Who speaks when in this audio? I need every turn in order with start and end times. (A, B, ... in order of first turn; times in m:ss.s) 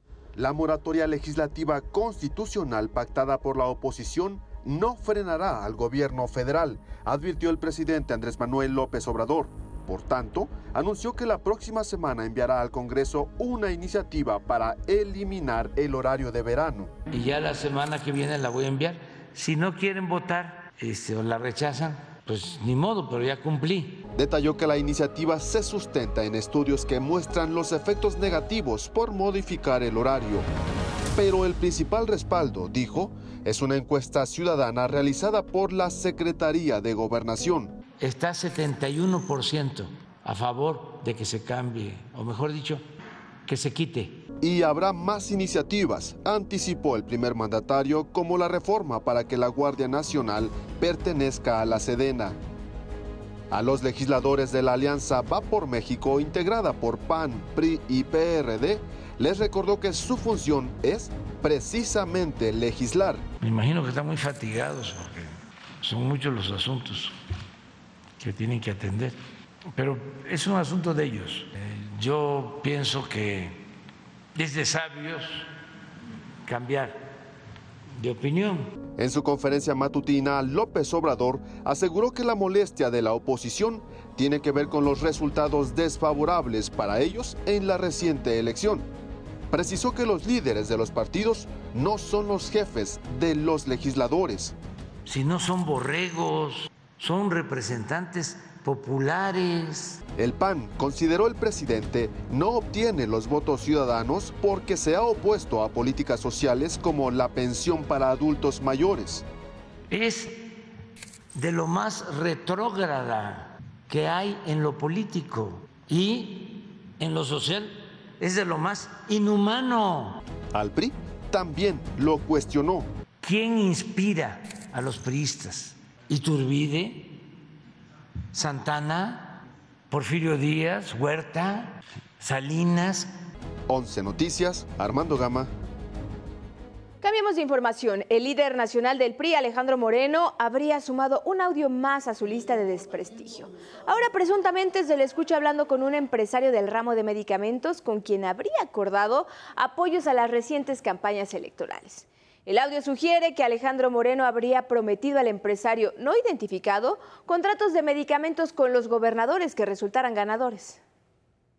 0:00.4-0:16.9 A
0:17.1-0:24.0 B
0:24.1-0:30.5 A
0:31.1-0:37.8 A
0:38.0-0:42.8 B
0:43.4-0:44.2 B
0:44.4-0:52.4 A
0:53.5-1:03.2 A
1:03.4-1:07.1 B
1:08.2-1:09.2 B
1:09.7-1:13.6 B
1:14.3-1:15.5 B
1:16.4-1:17.1 B
1:18.0-1:18.7 B
1:19.0-1:28.9 A
1:29.5-1:34.5 A
1:35.0-1:40.0 B
1:40.2-1:49.2 A
1:49.9-1:50.5 B
1:51.3-2:00.2 B
2:00.5-2:02.9 A
2:03.2-2:07.2 B
2:08.3-2:13.1 B
2:13.7-2:15.5 A
2:17.0-2:40.8 C